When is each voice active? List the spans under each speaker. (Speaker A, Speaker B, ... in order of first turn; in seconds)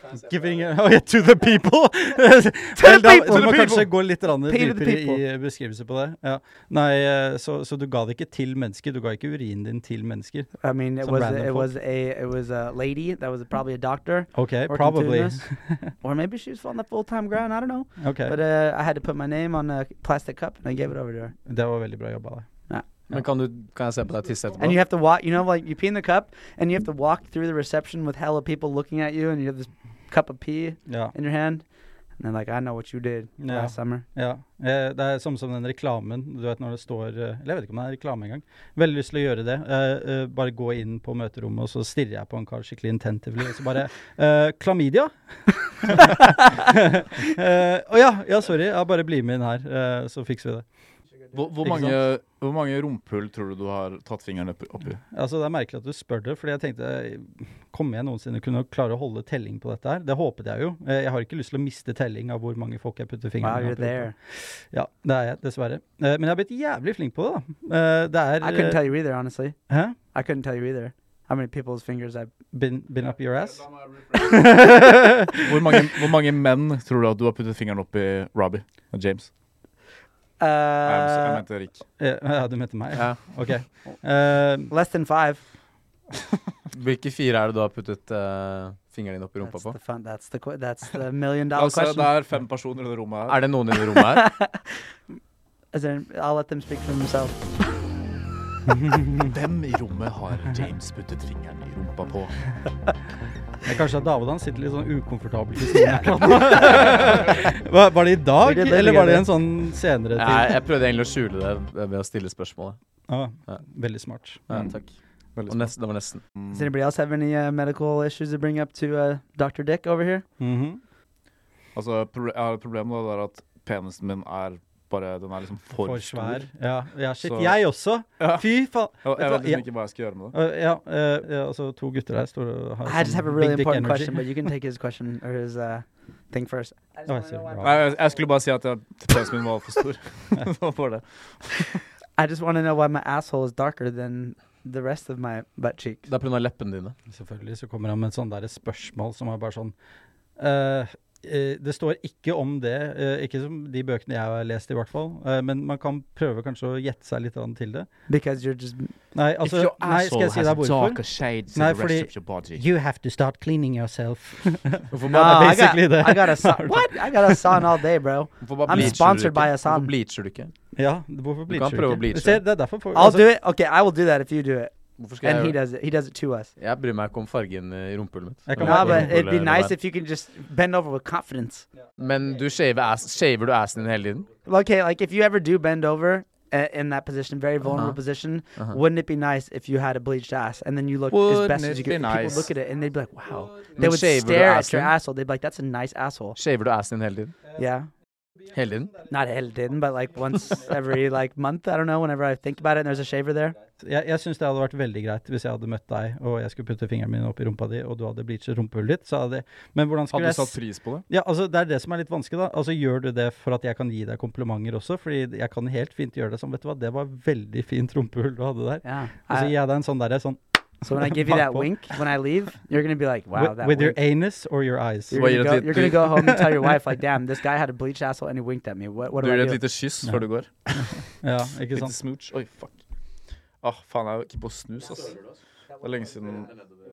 Speaker A: 0.1-11.7, 14.3-15.9, 18.0-18.4, 21.4-22.4, 30.9-31.1, 33.4-50.6, 51.6-52.0, 55.1-68.8, 69.7-70.0, 72.5-75.8, 82.0-84.7, 98.8-99.2, 103.6-110.6, 113.1-114.5, 120.4-120.8, 125.8-129.7, 130.3-134.2, 137.1-137.9, 147.1-149.7, 150.4-157.9, 159.1-167.6, 170.7-173.2, 178.5-179.2, 203.8-221.7, 223.3-225.3, 225.8-226.4, 231.2-231.9
Speaker B: 2.8-3.9, 4.5-5.2, 10.6-15.4, 16.0-21.3, 24.6-31.6, 32.2-34.0, 63.4-64.1, 68.4-69.6, 70.1-72.3, 80.4-81.4, 84.7-85.4, 89.4-92.1, 94.1-94.8, 95.7-97.4, 108.4-109.3, 116.5-120.2, 132.8-137.8, 142.2-146.1, 158.1-158.9, 165.1-169.9, 172.9-176.5, 178.6-181.7, 184.4-196.4, 197.6-197.9, 199.1-203.6, 218.8-219.5, 220.8-224.0, 225.1-229.6
Speaker C: 3.3-3.8, 51.3-55.0, 74.0-74.5, 75.4-79.3, 80.8-81.8, 91.5-93.4, 99.1-102.3, 115.3-115.7, 116.3-116.6, 121.7-126.5, 127.2-127.6, 128.2-128.5, 129.0-130.3, 137.6-141.8, 159.4-162.6, 191.1-192.5, 210.1-211.0, 225.1-226.4, 229.2-231.0, 231.7-232.8, 233.6-235.2, 235.8-236.6
Speaker D: 23.1-24.8, 82.9-83.2, 86.7-89.8, 93.3-94.3, 110.2-112.8, 114.5-114.9, 115.5-116.2, 146.1-146.9, 164.9-165.6, 168.4-170.5, 171.5-172.4, 175.0-175.6, 176.6-179.7, 182.0-184.3, 187.7-188.0, 193.8-194.9, 196.3-197.3, 198.5-198.9